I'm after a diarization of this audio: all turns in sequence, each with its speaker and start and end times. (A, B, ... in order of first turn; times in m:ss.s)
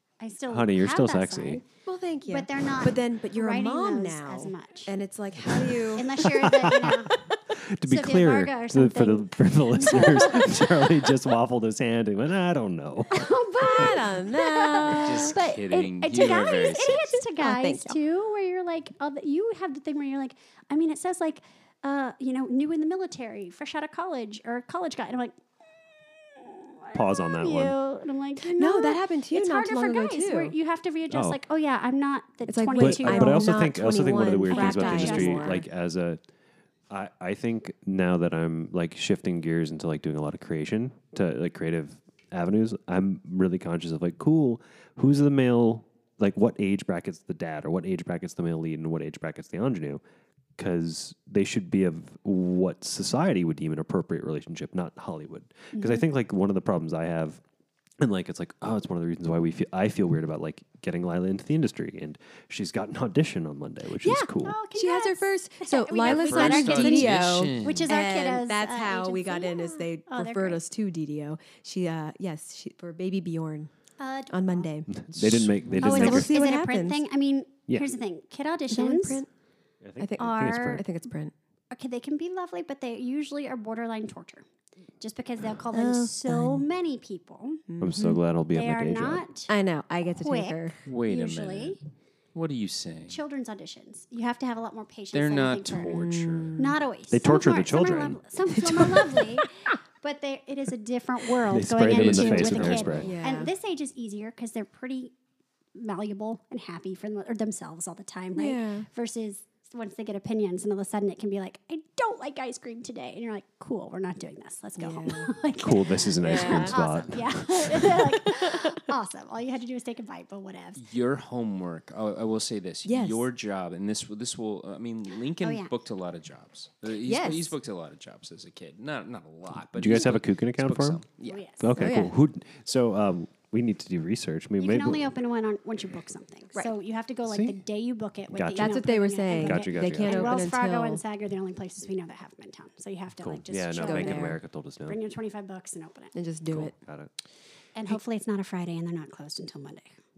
0:00.2-0:01.6 A
0:00.5-0:01.6 B
0:01.8-0:06.4 C
0:02.3-0:04.9 A
0:05.9-0:07.1 A
0:06.2-0:13.9 B
0:07.9-0:11.0 A
0:13.1-0:25.4 A
0:13.5-0:15.4 C
0:14.8-0:17.2 D
0:16.9-0:18.0 C
0:26.2-0:33.7 A
0:26.9-0:27.8 B
0:28.4-0:30.6 C
0:31.1-0:31.4 B
0:32.5-0:35.6 C
0:32.8-0:36.2 B
0:34.4-0:35.6 A
0:36.9-0:50.0 B
0:50.6-0:57.4 B
0:55.7-0:56.0 A
0:58.0-1:04.6 B
1:04.0-1:13.7 C
1:04.4-1:10.6 A
1:06.0-1:07.9 D
1:14.0-1:14.7 A
1:14.3-1:14.9 C
1:14.9-1:16.4 B
1:15.2-1:15.8 D
1:15.7-1:19.2 A
1:15.8-1:17.0 C
1:18.7-1:19.3 C
1:19.8-1:20.8 B
1:20.0-1:21.3 C
1:20.2-1:20.8 A
1:21.7-1:24.4 A
1:25.0-1:27.6 A
1:25.7-1:26.7 C
1:27.7-1:28.2 C
1:27.8-1:29.2 B
1:28.5-1:29.5 A
1:29.5-1:30.8 C
1:30.1-1:31.8 A
1:30.8-1:31.8 D
1:32.4-1:33.2 D
1:33.1-1:35.9 A
1:35.1-1:36.6 D
1:35.9-1:36.8 C
1:36.6-1:45.1 A
1:37.1-1:38.2 B
1:38.5-1:39.4 C
1:41.5-1:43.1 B
1:41.8-1:43.1 D
1:43.0-1:43.5 C
1:45.8-2:00.8 A
1:48.4-1:48.9 C
1:54.8-1:55.3 C
1:55.6-1:58.0 B
1:56.2-1:56.8 C
1:58.3-1:58.8 C
2:00.8-2:11.4 D
2:02.8-2:03.3 C
2:05.4-2:05.7 A
2:07.0-2:07.6 C
2:09.7-2:11.0 B
2:11.2-2:11.7 A
2:11.6-2:15.1 B
2:11.7-2:12.1 C
2:14.6-2:26.1 A
2:17.2-2:17.6 B
2:18.3-2:20.4 B
2:18.6-2:21.0 C
2:23.2-2:25.0 B
2:23.8-2:24.4 C
2:26.1-2:26.7 C
2:26.5-2:27.1 B
2:27.7-2:29.9 A